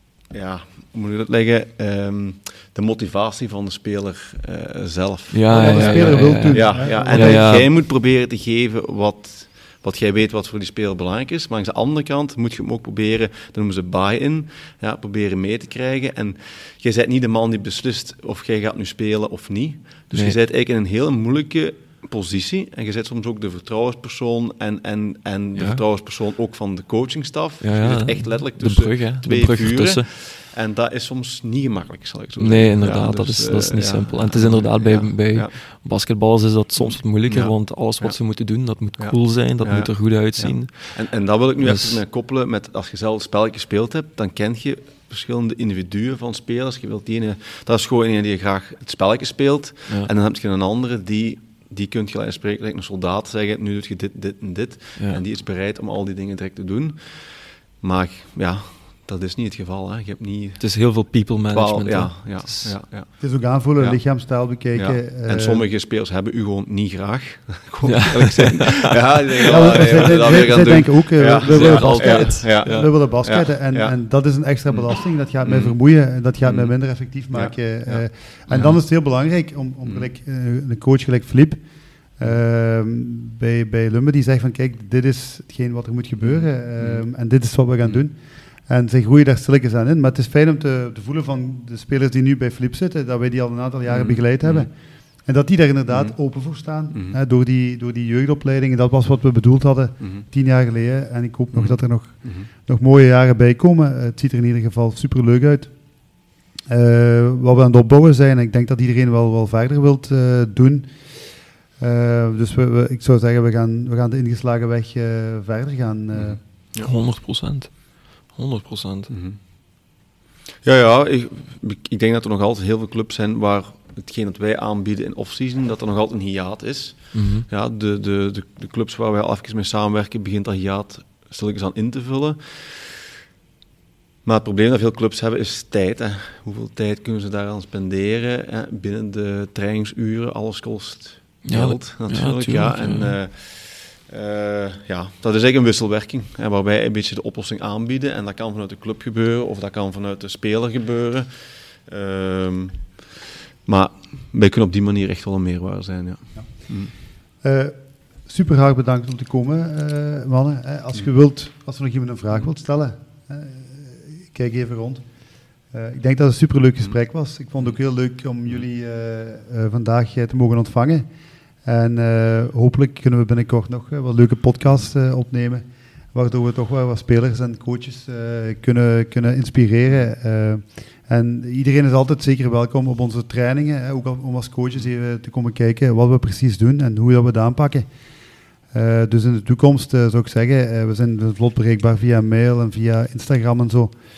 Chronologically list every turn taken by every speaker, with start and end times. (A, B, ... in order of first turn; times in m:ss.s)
0:00.3-0:35.6 A
0:05.3-0:07.7 B
0:05.5-0:07.5 C
0:20.1-0:20.4 B
0:25.6-0:25.8 B
0:27.6-0:30.1 B
0:32.4-0:41.0 B
0:36.8-0:38.2 A
0:38.7-1:00.6 A
0:41.6-0:42.0 B
0:55.0-0:55.2 B
1:00.6-1:02.8 B
1:01.5-1:04.0 A
1:03.2-1:05.6 C
1:04.7-1:13.9 A
1:07.8-1:12.9 B
1:09.4-1:21.6 C
1:14.7-1:18.8 A
1:22.2-1:45.8 C
1:26.2-1:27.0 A
1:33.9-1:34.7 A
1:35.9-1:37.2 A
1:41.5-1:42.5 A
1:46.7-1:56.4 C
1:56.1-1:56.9 A
1:56.8-1:59.1 B
1:59.1-1:59.4 A
2:00.6-2:12.9 A
2:07.1-2:07.5 B
2:14.2-2:36.9 A
2:21.4-2:23.1 B
2:36.4-2:36.7 C
2:37.4-2:45.0 C
2:45.7-2:51.0 C
2:51.6-3:07.9 C
3:08.7-3:13.9 C